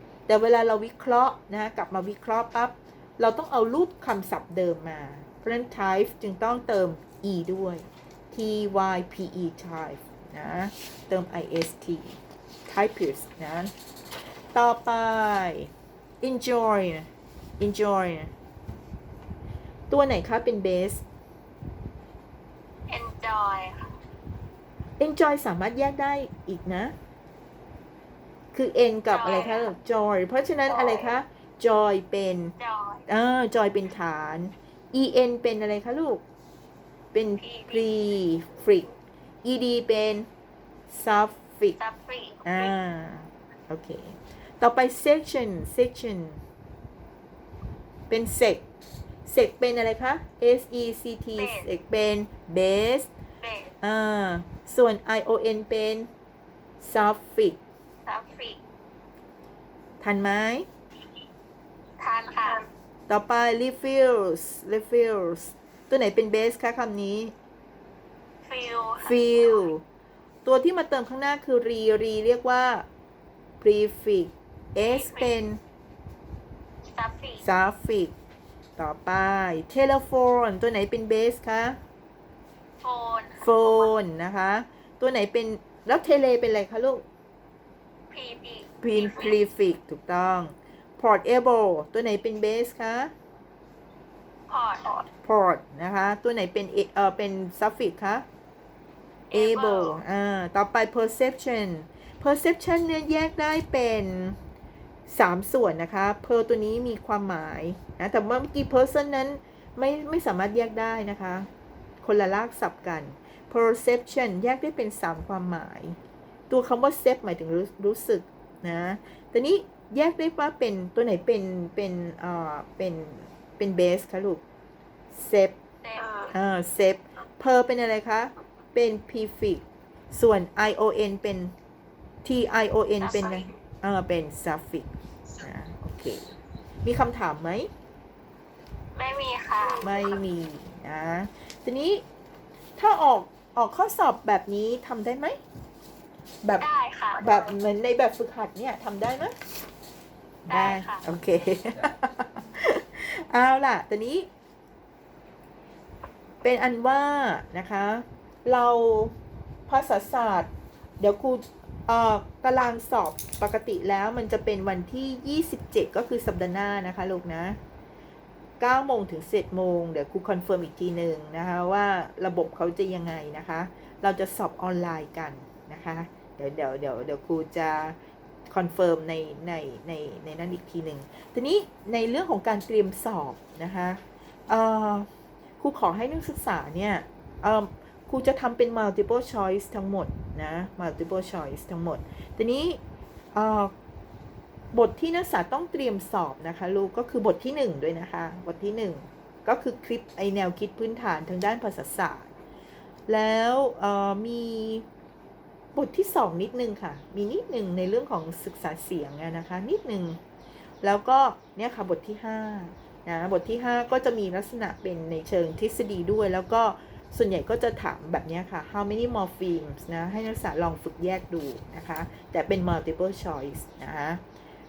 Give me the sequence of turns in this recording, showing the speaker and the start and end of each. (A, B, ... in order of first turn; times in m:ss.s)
0:00.3-0:13.7 A
0:14.5-0:18.3 A
0:19.9-0:21.0 A
0:22.9-0:24.0 B
0:25.0-0:26.9 A
0:28.5-0:32.6 A
0:29.1-0:29.7 B
0:30.7-0:31.2 B
0:32.6-0:33.1 B
0:33.1-0:36.2 A
0:37.1-0:38.9 A
0:37.4-0:37.9 B
0:39.4-0:40.3 A
0:40.9-0:41.8 A
0:41.8-0:42.7 B
0:42.4-0:46.4 A
0:48.1-0:48.6 A
0:49.2-0:53.1 A
0:51.4-0:51.7 B
0:53.4-0:53.7 B
0:53.8-0:56.1 A
0:56.8-0:57.6 A
0:58.1-0:58.6 B
1:00.0-1:00.7 A
1:02.0-1:02.6 B
1:03.1-1:07.3 A
1:08.4-1:09.7 B
1:09.0-1:09.8 A
1:10.4-1:12.9 A
1:13.6-1:15.6 A
1:14.9-1:15.3 B
1:16.9-1:17.4 B
1:17.4-1:18.1 A
1:18.8-1:21.8 A
1:22.8-1:23.9 B
1:23.4-1:27.0 A
1:28.1-1:29.4 B
1:28.8-1:33.1 A
1:34.5-1:35.1 B
1:35.1-1:38.2 A
1:39.3-1:40.0 B
1:39.3-1:44.4 A
1:45.1-1:51.5 A
1:52.0-1:56.0 A
1:56.5-2:04.4 A
2:05.1-2:05.6 A
2:05.8-2:06.3 B
2:06.3-2:11.5 A
2:12.2-2:16.2 A
2:13.0-2:13.5 B
2:16.8-2:17.7 A
2:18.9-2:20.1 B
2:19.8-2:22.0 A
2:22.8-2:25.4 A
2:26.6-2:27.5 B
2:27.2-2:29.4 A
2:30.5-2:31.0 B
2:30.5-2:34.3 A
2:36.4-2:39.2 A
2:39.7-2:40.5 A
2:41.0-2:47.6 A
2:48.6-2:58.0 A
2:58.5-3:05.1 A
3:05.6-3:12.8 A
3:13.3-3:13.7 A
3:14.7-3:22.3 A
3:23.1-3:24.9 A
3:25.8-3:30.2 A
3:30.8-3:44.2 A